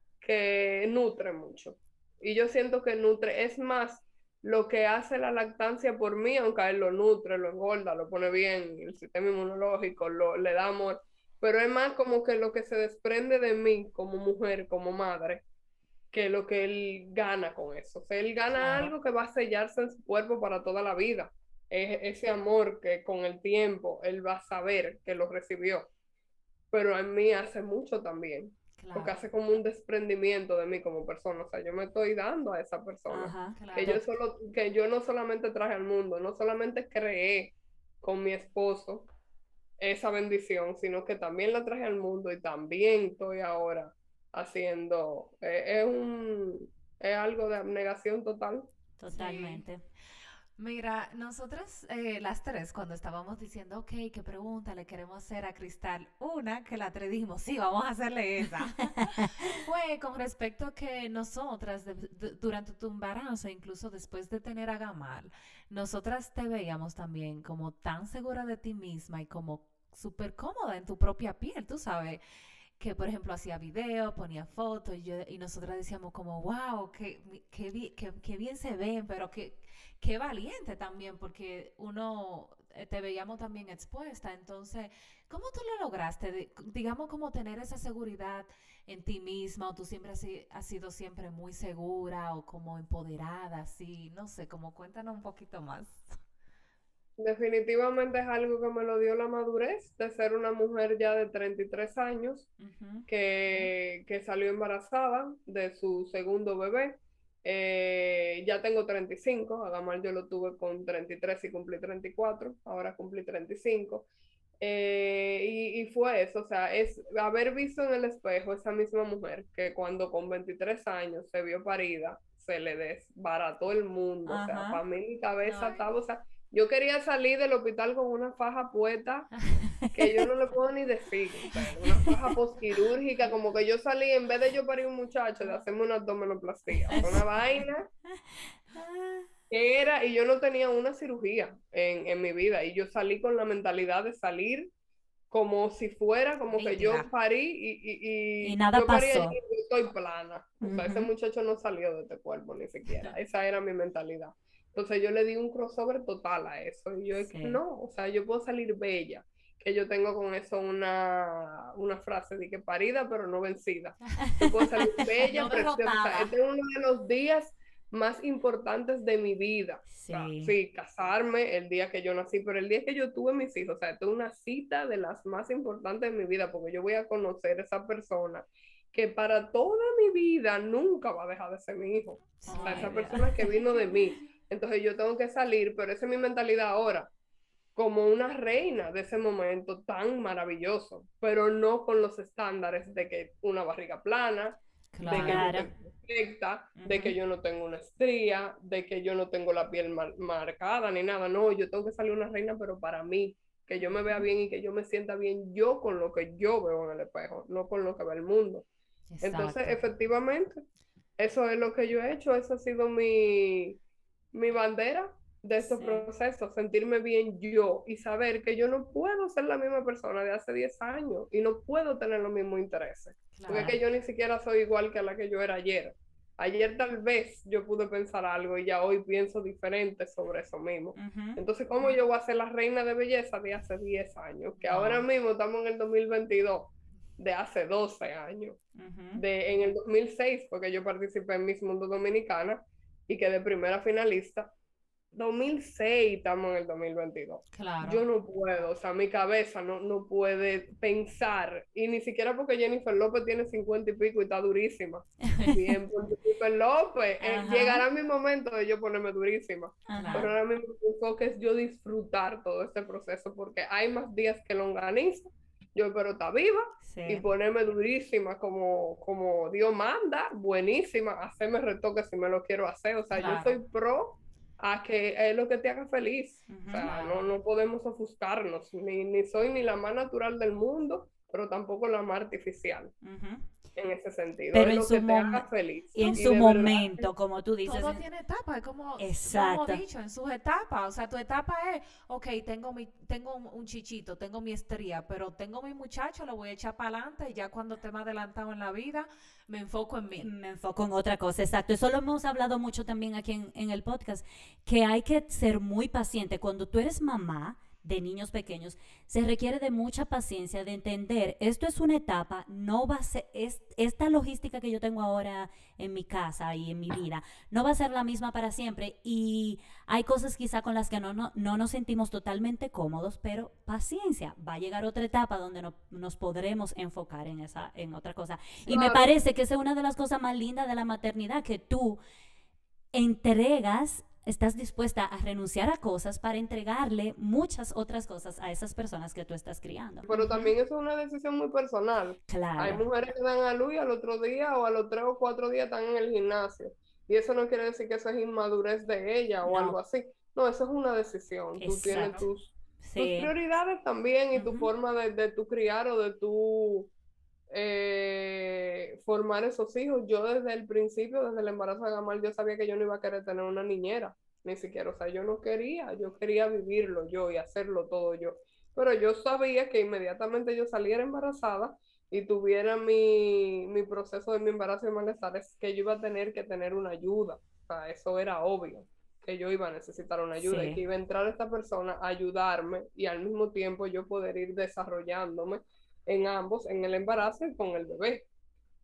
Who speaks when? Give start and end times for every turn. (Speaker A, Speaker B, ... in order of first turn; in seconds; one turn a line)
Speaker A: 0.2-15.4
Speaker A: 16.1-25.9
Speaker B: 18.6-18.9
Speaker A: 26.7-39.1
Speaker B: 28.8-29.3
Speaker C: 33.1-34.0
Speaker B: 33.5-34.0
Speaker A: 39.8-48.7
Speaker C: 49.0-49.8
Speaker B: 49.1-49.6
Speaker B: 50.6-72.2
Speaker C: 59.2-59.5
Speaker B: 72.8-96.2
Speaker A: 97.2-102.5
Speaker B: 102.6-103.0
Speaker A: 103.1-114.0
Speaker A: 114.6-129.3
Speaker C: 124.2-124.8
Speaker B: 125.4-125.9
Speaker A: 129.9-137.9
Speaker C: 136.9-137.2
Speaker C: 138.7-139.3
Speaker A: 139.5-144.7
Speaker A: 145.3-187.1
Speaker B: 146.5-147.1
Speaker C: 148.4-149.4
Speaker C: 150.6-151.1
Speaker C: 157.2-157.6
Speaker C: 164.2-165.1
Speaker B: 165.2-166.3
Speaker C: 169.9-170.6
Speaker C: 182.4-183.6
Speaker B: 182.4-183.8
Speaker A: 187.8-208.7
Speaker B: 194.9-195.6
Speaker C: 195.1-195.7
Speaker C: 196.8-197.2
Speaker B: 209.1-209.8
Speaker A: 209.2-210.6
Speaker A: 211.2-213.8
Speaker A: 214.3-238.6
Speaker B: 215.6-216.1
Speaker B: 223.3-223.8
Speaker C: 223.5-223.8
Speaker C: 230.9-231.4
Speaker B: 234.6-235.0
Speaker C: 238.7-239.2
Speaker A: 239.1-244.5
Speaker A: 245.1-282.9
Speaker B: 247.5-248.1
Speaker C: 257.2-257.9
Speaker C: 259.9-260.3
Speaker B: 259.9-260.3
Speaker C: 266.9-267.2
Speaker B: 273.1-273.6
Speaker C: 276.5-276.9
Speaker B: 276.8-277.2
Speaker C: 283.0-283.4
Speaker A: 283.8-287.1
Speaker C: 284.5-288.0
Speaker B: 287.6-300.3
Speaker C: 289.0-289.8
Speaker C: 300.1-332.0
Speaker A: 328.7-329.1
Speaker C: 332.9-340.4
Speaker A: 340.1-356.9
Speaker C: 342.3-342.8
Speaker C: 349.4-349.8
Speaker C: 351.6-352.3
Speaker B: 351.8-352.3
Speaker C: 352.8-353.3
Speaker C: 354.3-354.7
Speaker A: 357.5-388.2
Speaker C: 380.4-380.8